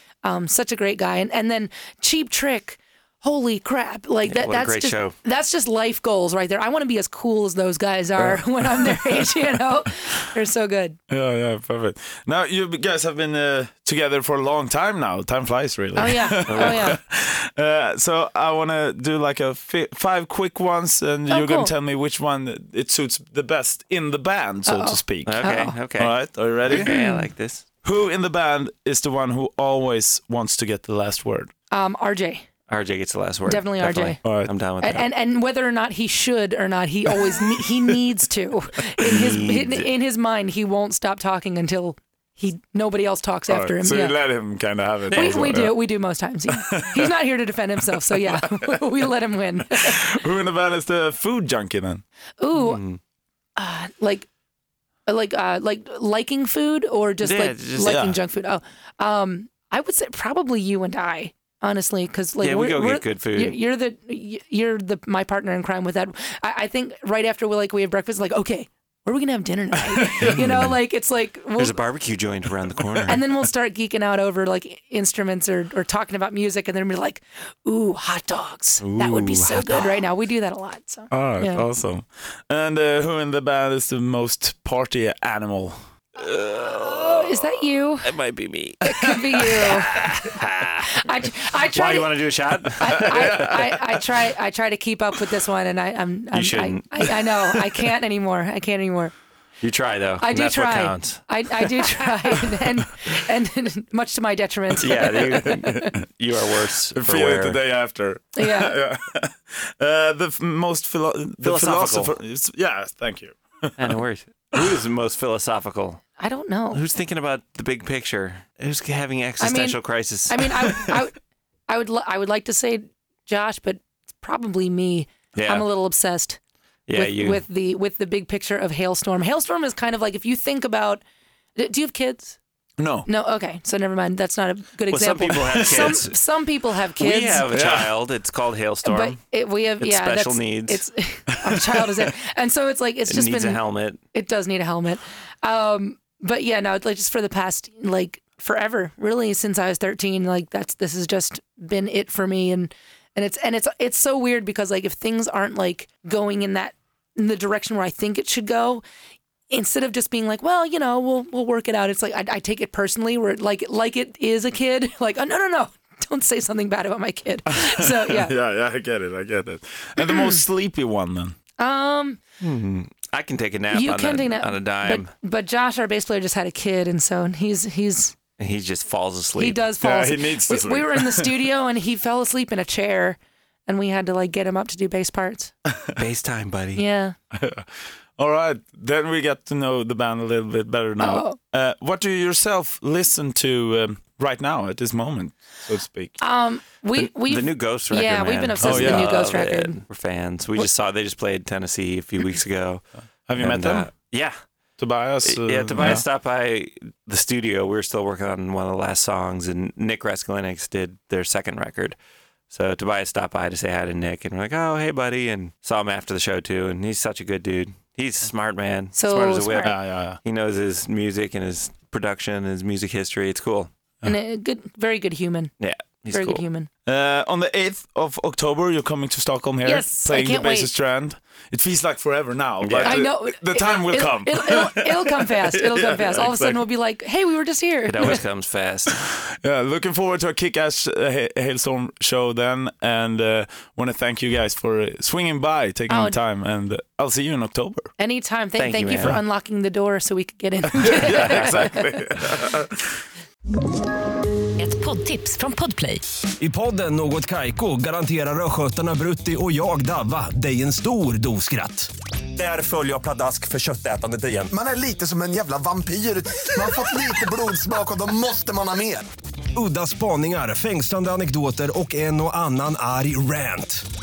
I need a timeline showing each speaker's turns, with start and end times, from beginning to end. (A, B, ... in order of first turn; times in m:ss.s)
0:00.2-0:11.0 A
0:04.2-0:05.2 B
0:08.2-0:10.1 C
0:11.1-0:26.9 C
0:16.0-0:17.0 A
0:16.5-0:16.9 B
0:21.3-0:21.7 A
0:24.7-0:25.8 A
0:25.3-0:27.6 B
0:26.8-0:27.3 A
0:27.8-0:31.5 C
0:31.7-0:32.5 A
0:32.7-0:35.1 B
0:33.5-0:34.2 A
0:34.2-0:34.5 C
0:34.8-0:44.2 A
0:39.0-0:39.9 B
0:43.5-0:45.9 C
0:45.1-0:50.0 A
0:46.5-0:47.2 C
0:49.7-0:52.0 C
0:52.4-0:52.8 A
0:52.6-0:53.0 B
0:53.6-0:54.3 A
0:55.1-1:11.8 A
0:57.2-0:58.0 B
0:57.8-0:58.2 C
1:02.4-1:03.6 B
1:10.2-1:10.6 C
1:10.3-1:10.7 B
1:11.6-1:13.3 B
1:13.1-1:21.7 A
1:18.8-1:19.9 B
1:21.1-1:25.8 C
1:26.2-1:33.6 B
1:26.5-1:28.1 A
1:28.8-1:30.1 A
1:30.8-1:32.2 A
1:32.8-1:39.1 A
1:33.1-1:33.7 C
1:36.3-1:37.1 B
1:39.6-1:41.2 B
1:40.2-1:45.7 A
1:44.8-1:47.6 B
1:44.8-1:46.0 C
1:47.0-1:53.8 C
1:48.4-1:48.8 A
1:51.4-1:52.2 B
1:53.8-1:56.0 B
1:56.2-1:56.8 A
1:56.7-2:01.0 B
1:59.4-2:01.2 A
2:01.7-2:06.4 A
2:05.4-2:05.7 B
2:06.9-2:07.4 B
2:06.9-2:11.0 A
2:11.6-2:12.4 A
2:12.8-2:13.1 C
2:13.1-2:17.5 A
2:14.9-2:16.2 B
2:15.6-2:15.9 C
2:17.0-2:19.2 B
2:17.5-2:17.9 C
2:18.8-2:23.6 A
2:19.8-2:20.8 B
2:23.1-2:24.0 B
2:24.1-2:38.8 A
2:39.5-2:48.3 A
2:47.6-2:51.4 C
2:50.0-2:50.3 A
2:51.6-2:52.2 A
2:52.4-2:55.1 B
2:53.7-2:58.2 A
2:58.4-2:59.6 B
2:59.4-3:05.5 A
2:59.8-3:01.3 C
3:05.9-3:06.8 B
3:06.8-3:07.2 A
3:07.3-3:16.2 C
3:11.0-3:11.4 A
3:16.2-3:19.8 A
3:17.0-3:22.8 B
3:18.6-3:19.2 C
3:23.3-3:23.9 C
3:23.4-3:24.4 B
3:24.8-3:26.0 C
3:25.2-3:32.0 B
3:32.5-3:43.7 B
3:39.0-3:39.8 A
3:39.6-3:40.2 C
3:44.0-3:45.5 A
3:45.6-3:46.4 B
3:46.1-3:46.7 A
3:46.9-3:56.6 C
3:49.6-3:50.7 A
3:52.6-3:53.0 B
3:52.8-3:58.2 A
3:57.9-3:58.9 B
3:58.9-4:07.9 C
4:05.9-4:06.2 A
4:08.0-4:11.9 A
4:08.6-4:09.2 B
4:10.8-4:12.8 C
4:11.1-4:11.7 B
4:14.6-4:16.0 A
4:16.4-4:24.5 D
4:24.5-4:29.0 E
4:29.5-4:33.8 D